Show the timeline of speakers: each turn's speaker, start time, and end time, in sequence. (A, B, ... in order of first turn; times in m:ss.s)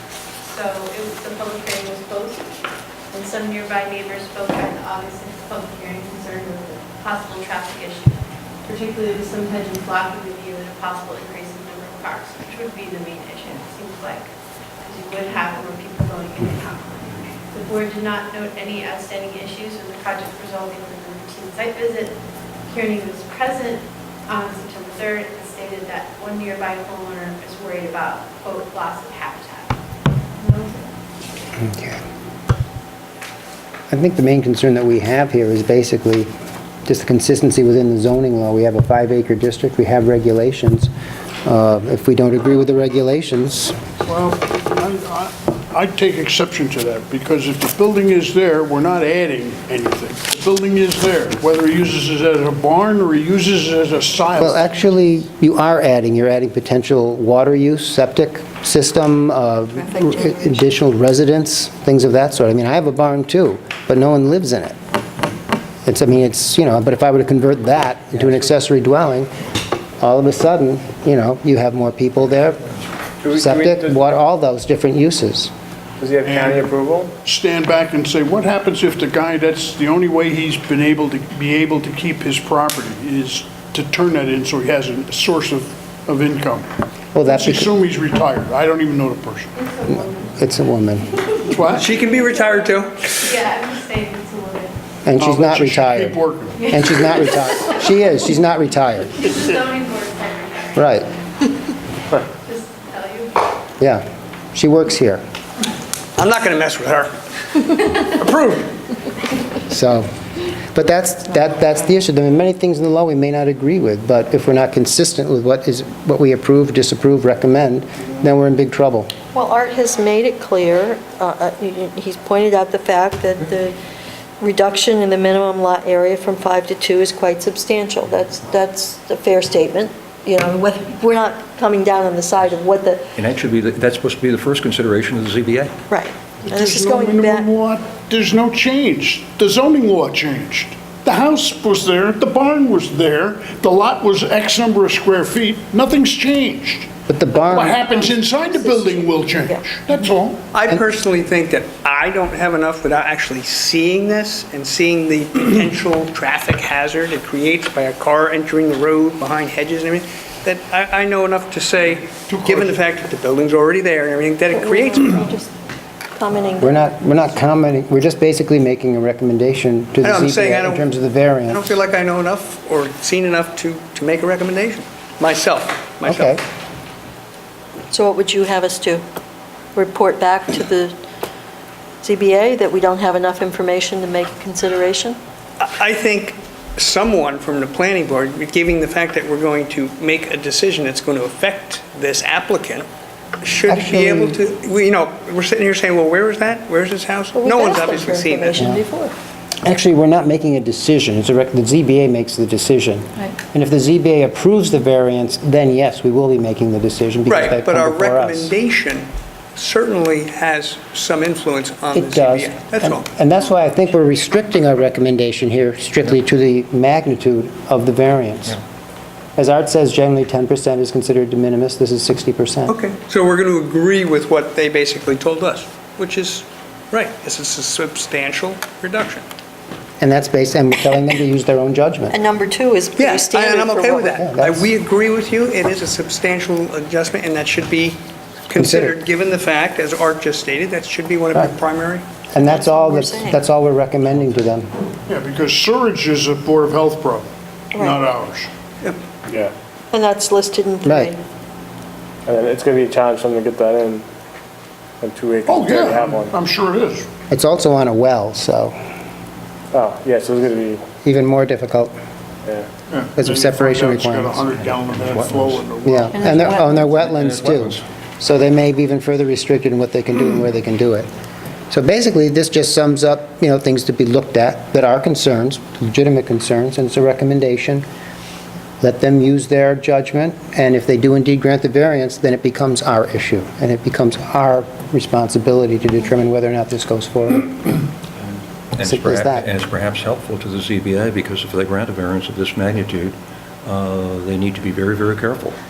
0:00.4-0:02.5 A
0:03.1-0:14.3 A
0:14.8-0:29.8 A
0:30.3-0:30.9 A
0:31.6-0:32.0 B
0:33.9-0:36.3 B
0:36.9-0:40.9 B
0:41.4-0:43.8 B
0:44.0-0:54.8 C
0:54.4-1:04.8 B
1:05.8-1:09.3 B
1:10.0-1:12.7 B
1:13.2-1:13.9 D
1:13.3-1:15.5 B
1:16.0-1:17.2 D
1:16.2-1:16.7 C
1:17.2-1:26.7 C
1:27.1-1:27.7 B
1:27.2-1:29.5 C
1:29.6-1:30.4 A
1:29.9-1:31.2 B
1:31.5-1:31.9 C
1:31.7-1:33.1 E
1:32.1-1:34.8 A
1:35.0-1:39.2 B
1:35.2-1:36.8 C
1:36.6-1:38.1 A
1:39.2-1:41.2 A
1:40.8-1:41.1 B
1:42.2-1:43.4 A
1:44.5-1:45.2 B
1:46.2-1:48.8 E
1:49.7-1:50.1 B
1:50.7-1:59.1 B
1:59.3-2:03.8 F
2:04.4-2:13.1 F
2:13.2-2:15.8 G
2:15.9-2:17.5 F
2:16.4-2:26.9 C
2:27.1-2:27.8 B
2:27.5-2:30.4 C
2:28.0-2:29.6 F
2:30.5-2:45.3 E
2:42.1-2:42.8 C
2:44.5-2:45.5 F
2:46.1-2:46.9 F
2:46.6-2:51.8 B
2:50.0-2:50.9 E
2:51.5-2:56.4 E
2:56.0-2:56.4 B
2:57.9-2:59.0 F
2:59.8-3:01.0 F
3:02.0-3:05.2 F
3:05.6-3:12.9 E
3:13.4-3:18.6 E
3:13.7-3:14.4 B
3:17.3-3:19.1 F
3:18.6-3:18.8 B
3:19.6-3:28.5 B
3:27.3-3:33.0 E
3:31.9-3:38.6 B
3:39.4-3:42.8 B
3:42.7-3:49.2 E
3:50.0-3:52.2 B
3:52.1-3:54.2 F
3:53.0-4:02.0 E
3:54.2-3:54.7 B
3:58.6-3:59.0 B
4:02.3-4:04.7 B
4:02.4-4:03.4 F
4:05.1-4:08.5 C
4:07.7-4:08.0 F
4:09.9-4:11.2 F
4:10.8-4:11.1 B
4:12.3-4:14.1 D
4:15.0-4:16.4 D
4:15.5-4:17.1 C
4:17.3-4:18.8 B
4:19.7-4:20.9 D
4:21.0-4:21.9 B
4:22.9-4:26.4 C
4:23.2-4:24.6 B
4:24.6-4:25.6 G
4:25.8-4:31.1 B
4:26.1-4:26.8 F
4:26.2-4:27.8 G
4:31.7-4:37.8 B
4:38.8-4:47.7 B
4:48.2-4:55.6 G
4:48.8-4:49.5 B